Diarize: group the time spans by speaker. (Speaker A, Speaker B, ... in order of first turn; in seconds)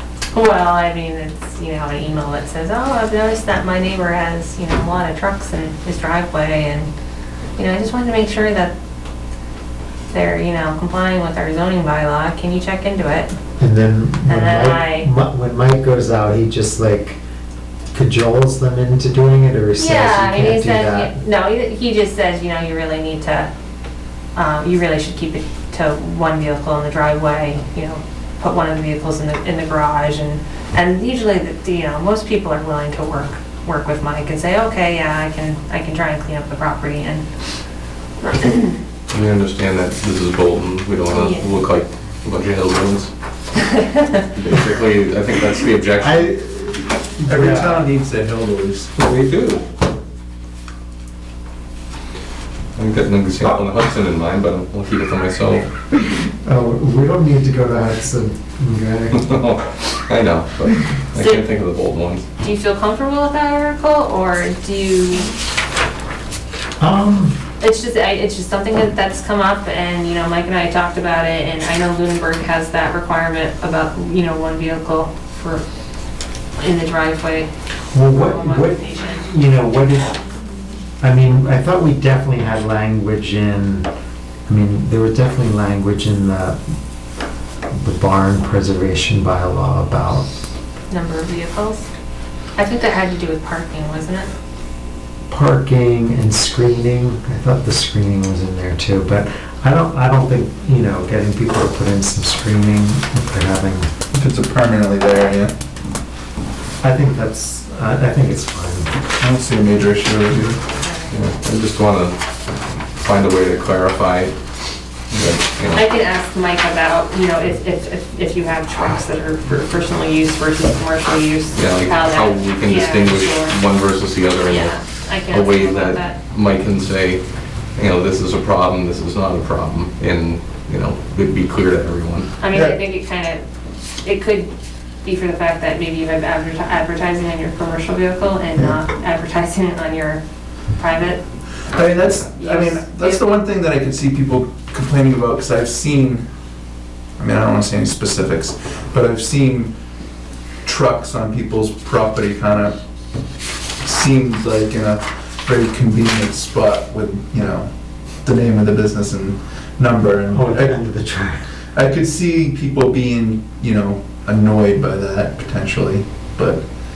Speaker A: 0.3-6.9, 7.6-8.7, 10.1-13.3, 14.3-15.1, 19.8-23.5, 24.3-37.2, 38.2-38.8, 41.1-41.4, 61.2-61.4, 62.4-65.3, 67.6-75.6, 76.5-77.5, 78.0-79.3, 90.9-91.9, 92.5-94.3, 110.8-111.1, 115.7-123.6, 124.5-126.2, 132.4-133.4, 134.0-134.5, 135.0-140.2, 140.8-141.2, 142.3-143.3
Speaker B: 13.6-17.2, 17.9-21.2, 46.0-47.9, 56.1-59.3, 66.8-67.4, 77.9-80.2, 81.0-83.9, 84.5-86.6, 87.7-90.3, 95.3-103.9, 106.8-108.9, 160.3-161.4
Speaker C: 39.1-43.1, 44.3-46.3, 49.0-49.6, 52.8-55.7, 59.1-62.2, 111.1-112.2, 113.0-114.3, 115.1-115.8, 121.5-124.8, 125.3-127.2, 127.7-132.3
Speaker D: 47.2-48.9, 104.1-105.5, 109.2-110.6, 132.5-132.8, 141.7-146.2, 147.2-149.7, 150.6-152.7, 153.8-157.7, 158.2-160.8, 161.7-166.6